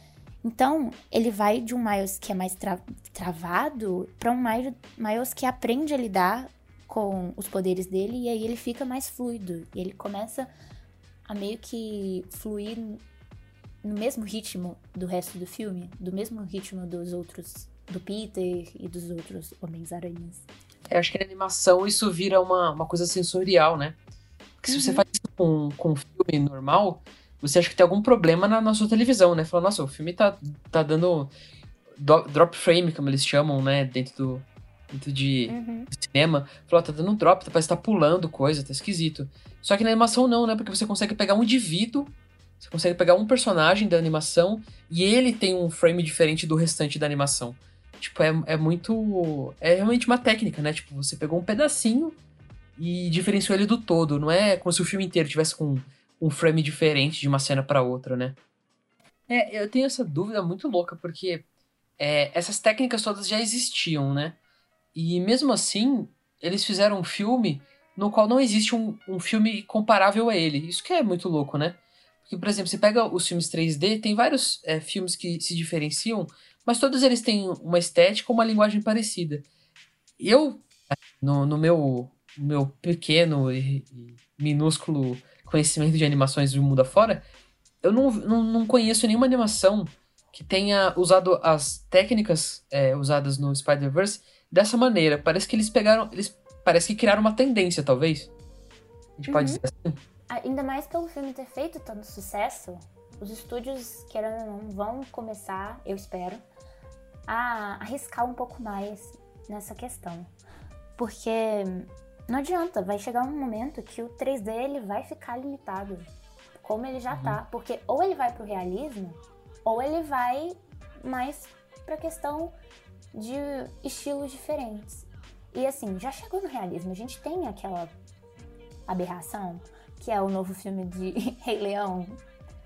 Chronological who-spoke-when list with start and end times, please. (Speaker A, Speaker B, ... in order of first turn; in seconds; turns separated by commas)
Speaker A: 0.4-10.5, Speaker A: 11.3-13.0, Speaker A: 13.8-20.4, Speaker B: 20.9-24.0, Speaker B: 24.6-31.3, Speaker A: 24.7-25.0, Speaker B: 31.9-52.2, Speaker A: 35.5-35.9, Speaker B: 52.8-58.4, Speaker B: 59.3-61.4, Speaker B: 62.0-64.4, Speaker B: 64.9-79.4, Speaker B: 80.2-87.2, Speaker B: 87.8-98.3, Speaker B: 99.2-100.0, Speaker A: 99.3-99.6, Speaker A: 100.3-106.4, Speaker A: 107.3-110.3, Speaker A: 111.0-116.1, Speaker A: 116.6-122.5, Speaker B: 117.1-117.4, Speaker A: 123.1-127.9, Speaker A: 128.9-132.2